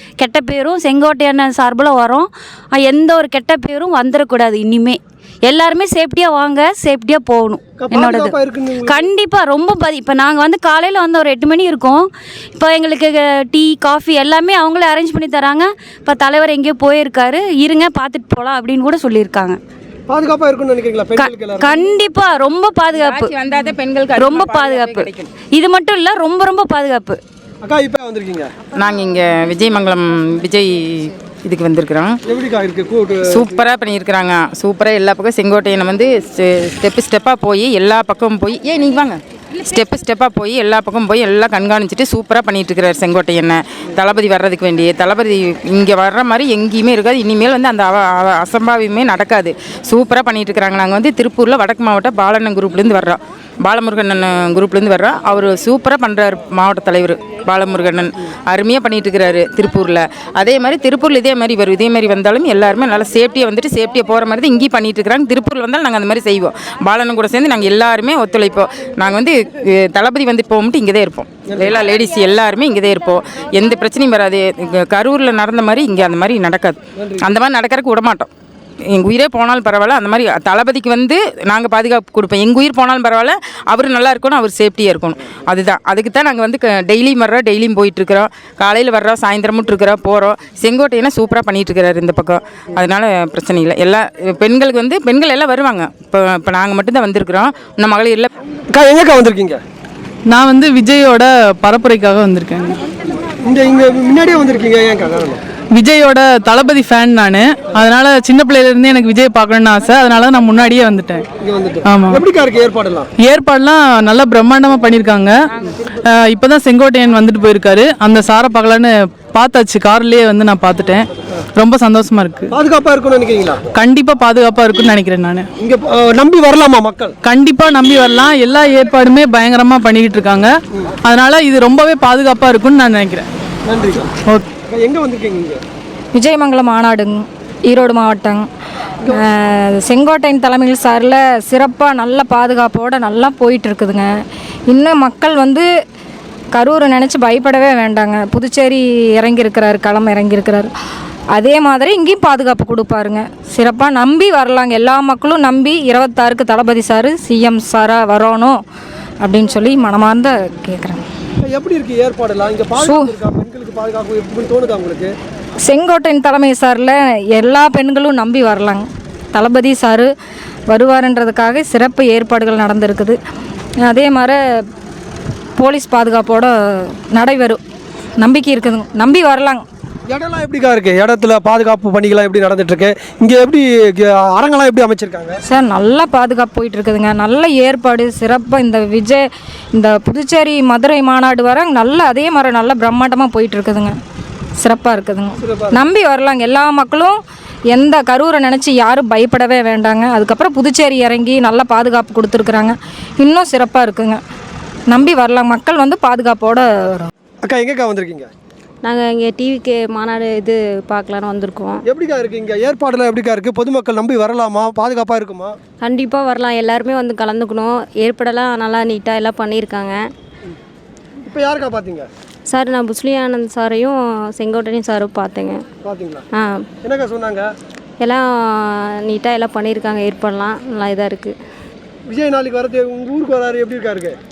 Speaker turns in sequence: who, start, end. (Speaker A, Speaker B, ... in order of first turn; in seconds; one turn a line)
Speaker A: 0.2-19.6
Speaker B: 7.8-9.1
Speaker B: 20.1-21.8
Speaker A: 21.2-27.2
Speaker C: 22.9-25.3
Speaker B: 27.6-28.5
Speaker C: 28.8-32.2
Speaker B: 32.3-33.6
Speaker C: 33.3-78.3
Speaker B: 71.5-71.7
Speaker B: 77.0-77.2
Speaker C: 78.9-98.3
Speaker B: 98.7-99.6
Speaker D: 100.3-102.8
Speaker B: 103.4-105.4
Speaker D: 105.7-111.3
Speaker B: 111.4-113.1
Speaker D: 111.8-112.2
Speaker D: 113.2-115.3
Speaker D: 116.0-122.6
Speaker B: 122.5-123.6
Speaker D: 123.8-125.5
Speaker B: 125.6-127.1
Speaker D: 127.2-133.3
Speaker B: 133.7-134.1
Speaker B: 134.7-135.6
Speaker E: 136.1-138.5
Speaker E: 139.1-145.7
Speaker E: 146.5-150.7
Speaker E: 151.3-158.6
Speaker E: 159.2-161.0
Speaker B: 161.4-165.1
Speaker E: 162.8-163.1
Speaker E: 165.7-170.1
Speaker E: 170.7-173.2
Speaker E: 173.8-174.4
Speaker E: 175.6-177.6
Speaker E: 178.2-179.7
Speaker B: 180.1-185.4
Speaker E: 185.4-193.9
Speaker E: 194.6-204.2
Speaker B: 195.4-195.8
Speaker E: 204.9-207.1
Speaker B: 207.4-208.3
Speaker F: 208.8-211.8
Speaker B: 211.8-215.6
Speaker F: 215.8-220.0
Speaker B: 221.3-222.1
Speaker F: 222.5-225.7
Speaker B: 225.8-226.2
Speaker F: 226.3-226.7
Speaker B: 226.8-227.5
Speaker F: 228.0-231.3
Speaker B: 232.1-234.2